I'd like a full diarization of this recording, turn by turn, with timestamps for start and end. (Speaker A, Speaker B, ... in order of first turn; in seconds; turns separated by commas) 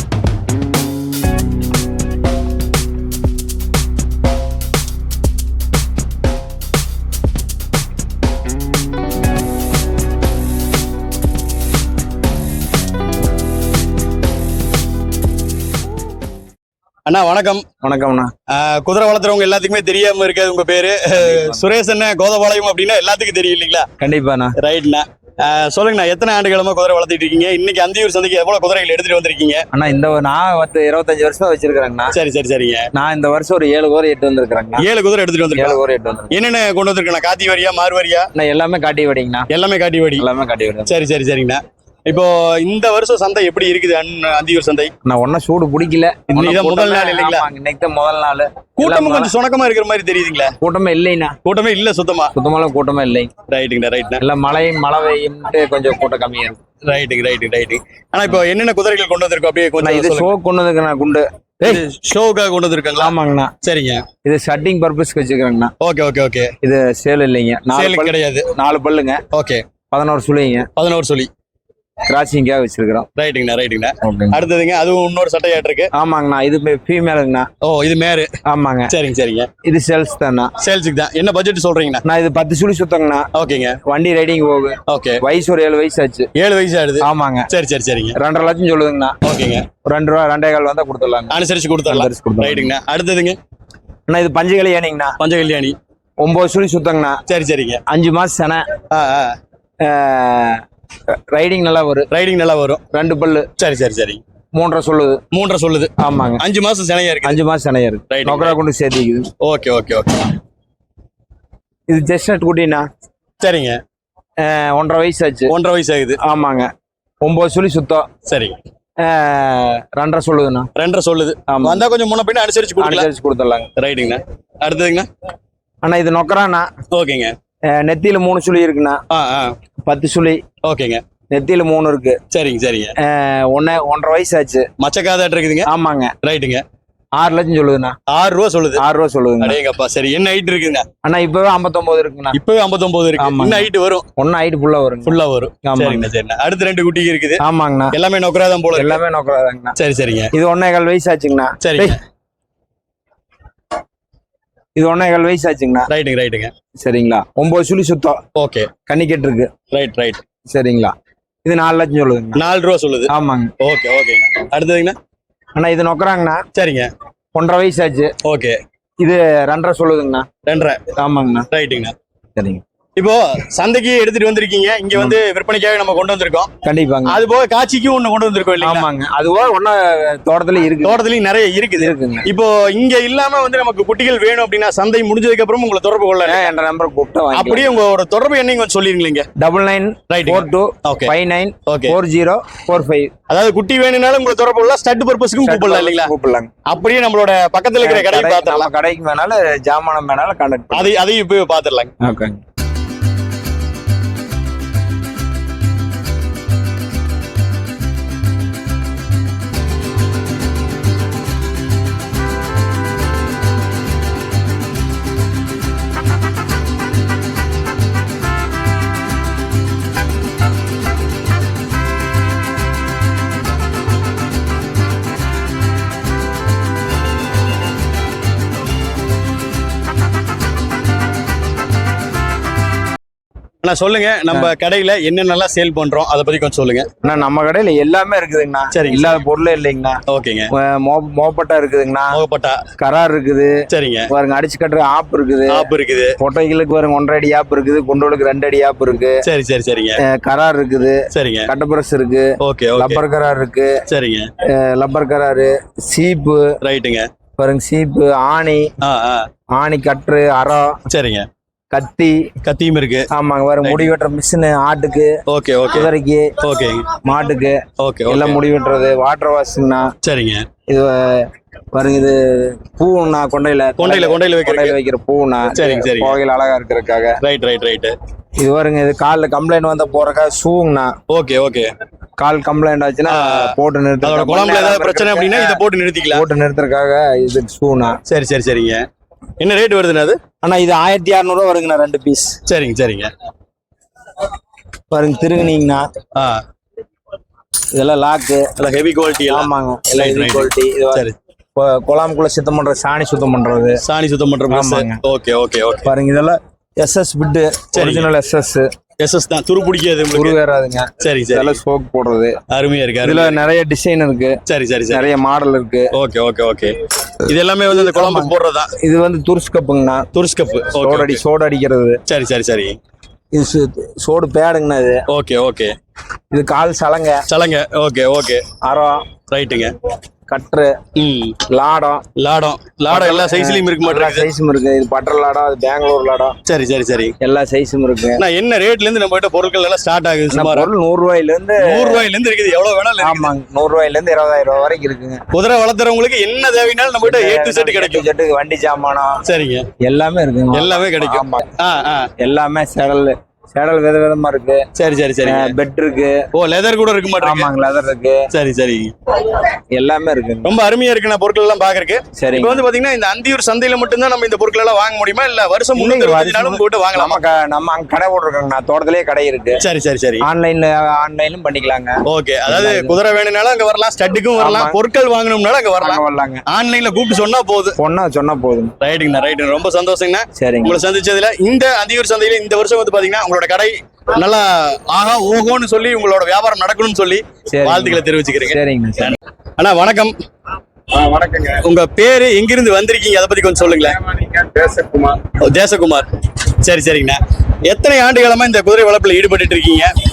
Speaker A: 17.1-17.6, Speaker B: 17.8-18.3, Speaker A: 18.5-23.9, Speaker B: 21.1-21.6, Speaker B: 24.0-24.6, Speaker A: 24.6-29.6, Speaker B: 29.7-32.1, Speaker A: 32.1-32.9, Speaker B: 32.9-34.8, Speaker A: 34.8-35.8, Speaker B: 35.6-36.3, Speaker A: 36.3-38.3, Speaker B: 38.3-39.5, Speaker A: 39.5-40.2, Speaker B: 40.2-40.9, Speaker A: 40.9-44.9, Speaker B: 45.0-49.3, Speaker A: 46.3-47.4, Speaker A: 48.8-50.5, Speaker B: 50.6-51.4, Speaker A: 51.4-52.3, Speaker B: 52.3-53.3, Speaker A: 53.5-54.2, Speaker B: 54.2-56.6, Speaker A: 56.9-60.3, Speaker B: 59.8-61.8, Speaker A: 61.6-64.0, Speaker B: 63.0-63.5, Speaker B: 64.2-65.7, Speaker A: 65.8-66.5, Speaker B: 66.6-69.2, Speaker A: 67.7-68.5, Speaker A: 69.3-69.6, Speaker B: 69.9-70.7, Speaker A: 70.8-71.3, Speaker B: 72.1-73.1, Speaker A: 73.2-75.9, Speaker B: 74.0-74.4, Speaker B: 75.9-77.5, Speaker A: 77.6-78.3, Speaker B: 78.5-78.9, Speaker A: 78.9-79.5, Speaker B: 79.6-80.5, Speaker A: 80.6-82.0, Speaker B: 82.0-83.3, Speaker A: 83.3-83.8, Speaker B: 83.8-86.3, Speaker A: 84.9-85.2, Speaker A: 86.3-88.1, Speaker B: 87.0-87.5, Speaker B: 88.2-89.2, Speaker A: 89.2-89.7, Speaker B: 89.8-91.3, Speaker A: 91.3-93.4, Speaker B: 91.9-92.7, Speaker B: 94.1-95.2, Speaker A: 95.2-95.8, Speaker B: 96.2-97.2, Speaker A: 97.3-97.8, Speaker B: 97.9-98.6, Speaker A: 98.9-99.3, Speaker B: 99.8-102.1, Speaker A: 102.1-102.8, Speaker B: 102.9-103.5, Speaker A: 103.6-104.2, Speaker B: 104.5-105.2, Speaker A: 105.3-107.4, Speaker B: 106.0-106.4, Speaker B: 107.2-109.3, Speaker A: 108.1-108.5, Speaker A: 109.4-110.3, Speaker B: 111.9-112.8, Speaker A: 113.4-113.8, Speaker B: 114.4-115.5, Speaker A: 115.5-116.2, Speaker B: 116.2-116.7, Speaker B: 117.2-118.1, Speaker A: 118.3-118.5, Speaker B: 119.0-120.7, Speaker A: 120.8-123.1, Speaker B: 121.5-121.8, Speaker B: 122.8-123.7, Speaker A: 123.8-125.1, Speaker B: 125.8-126.7, Speaker A: 126.9-127.3, Speaker B: 127.7-129.0, Speaker A: 129.1-129.5, Speaker B: 129.8-130.4, Speaker A: 130.6-131.0, Speaker B: 131.3-132.2, Speaker A: 132.3-132.9, Speaker B: 133.0-134.7, Speaker A: 134.8-135.7, Speaker B: 135.7-136.1, Speaker A: 136.2-136.6, Speaker B: 137.2-137.9, Speaker A: 138.1-138.8, Speaker B: 138.8-139.6, Speaker A: 139.4-140.8, Speaker B: 141.0-142.4, Speaker A: 142.3-144.0, Speaker B: 143.2-146.1, Speaker A: 145.1-147.4, Speaker B: 147.4-147.9, Speaker A: 147.9-149.0, Speaker B: 148.7-149.8, Speaker A: 149.8-150.3, Speaker B: 150.3-152.0, Speaker A: 151.6-151.9, Speaker B: 154.8-155.9, Speaker A: 155.9-156.5, Speaker B: 156.8-158.2, Speaker A: 158.3-158.7, Speaker B: 158.8-159.5, Speaker A: 159.7-160.2, Speaker B: 160.5-162.4, Speaker A: 162.3-164.9, Speaker B: 163.1-163.5, Speaker B: 165.6-166.4, Speaker A: 166.5-166.9, Speaker B: 167.3-168.1, Speaker A: 168.2-168.6, Speaker B: 169.0-170.3, Speaker A: 170.4-170.8, Speaker B: 171.0-171.5, Speaker A: 171.5-171.9, Speaker B: 172.4-172.6, Speaker A: 173.0-176.5, Speaker B: 176.6-177.2, Speaker A: 177.1-178.8, Speaker B: 178.6-181.0, Speaker A: 180.8-186.5, Speaker B: 181.8-182.3, Speaker B: 186.3-187.7, Speaker A: 187.3-189.3, Speaker B: 189.4-193.1, Speaker A: 190.1-191.1, Speaker A: 191.7-191.9, Speaker A: 193.3-196.1, Speaker B: 195.4-196.5, Speaker A: 196.7-198.7, Speaker B: 197.8-200.9, Speaker A: 200.7-201.9, Speaker B: 202.0-202.4, Speaker A: 233.6-236.8, Speaker B: 237.0-240.0, Speaker A: 238.7-239.1, Speaker A: 240.1-240.5, Speaker B: 240.6-242.2, Speaker A: 242.1-242.6, Speaker B: 242.8-249.2, Speaker A: 243.7-244.1, Speaker A: 245.5-246.1, Speaker A: 249.2-250.0, Speaker B: 250.0-253.8, Speaker A: 251.1-251.5, Speaker A: 252.4-253.0, Speaker A: 253.9-254.3, Speaker B: 254.5-256.5, Speaker A: 256.6-257.1, Speaker B: 257.4-258.7, Speaker A: 258.8-259.3, Speaker B: 259.6-260.8, Speaker A: 260.9-261.3, Speaker B: 261.7-262.2, Speaker A: 262.4-263.1, Speaker B: 263.1-265.2, Speaker A: 263.6-263.9, Speaker A: 265.3-265.9, Speaker B: 265.7-266.3, Speaker A: 266.4-266.9, Speaker B: 266.9-269.9, Speaker A: 267.8-268.4, Speaker A: 270.0-270.5, Speaker B: 270.7-277.2, Speaker A: 273.8-274.7, Speaker A: 275.6-276.2, Speaker A: 277.2-277.9, Speaker B: 278.4-280.9, Speaker A: 281.1-281.7, Speaker B: 282.2-285.6, Speaker A: 283.1-286.2, Speaker B: 286.1-288.0, Speaker A: 288.1-288.8, Speaker A: 289.4-290.2, Speaker B: 290.4-292.4, Speaker A: 292.5-293.1, Speaker B: 294.9-295.9, Speaker A: 296.1-296.4, Speaker B: 297.7-298.5, Speaker A: 298.6-301.1, Speaker B: 299.3-303.8, Speaker A: 303.8-305.9, Speaker B: 304.5-305.0, Speaker B: 305.9-308.7, Speaker A: 307.7-308.1, Speaker A: 309.0-310.4, Speaker B: 310.1-312.4, Speaker A: 311.0-311.6, Speaker A: 312.5-313.3, Speaker B: 313.0-314.4, Speaker A: 314.4-315.0, Speaker B: 314.9-315.9, Speaker A: 315.9-318.7, Speaker B: 317.7-318.3, Speaker B: 318.8-320.1, Speaker A: 320.1-321.2, Speaker B: 320.7-322.0, Speaker A: 322.1-322.8, Speaker B: 323.3-325.0, Speaker A: 325.1-325.7, Speaker B: 326.3-327.2, Speaker A: 327.3-328.4, Speaker B: 328.6-329.0, Speaker A: 329.3-329.7, Speaker B: 330.3-330.8, Speaker A: 330.9-331.4, Speaker B: 331.5-332.0, Speaker A: 332.2-334.2, Speaker B: 332.9-336.3, Speaker A: 336.4-337.1, Speaker B: 337.2-338.2, Speaker A: 338.2-340.7, Speaker B: 340.3-342.0, Speaker A: 341.6-343.3, Speaker B: 343.0-345.2, Speaker A: 345.3-348.1, Speaker B: 347.0-349.2, Speaker A: 349.2-349.6, Speaker B: 349.8-351.4, Speaker A: 350.5-352.1, Speaker B: 352.2-354.6, Speaker A: 354.8-355.5, Speaker B: 355.2-356.2, Speaker A: 356.3-357.5, Speaker B: 357.2-358.2, Speaker A: 358.3-358.9, Speaker B: 359.7-360.5, Speaker A: 360.4-367.2, Speaker B: 362.2-362.6, Speaker B: 365.8-369.6, Speaker A: 369.6-370.2, Speaker B: 370.2-372.9, Speaker A: 372.1-377.8, Speaker B: 374.4-374.8, Speaker B: 375.8-376.4, Speaker B: 377.8-378.7, Speaker A: 378.8-390.1, Speaker B: 380.4-380.8, Speaker B: 387.5-389.1, Speaker C: 390.9-391.6, Speaker A: 391.6-393.9, Speaker C: 393.6-395.2, Speaker A: 395.4-396.1, Speaker A: 396.6-399.9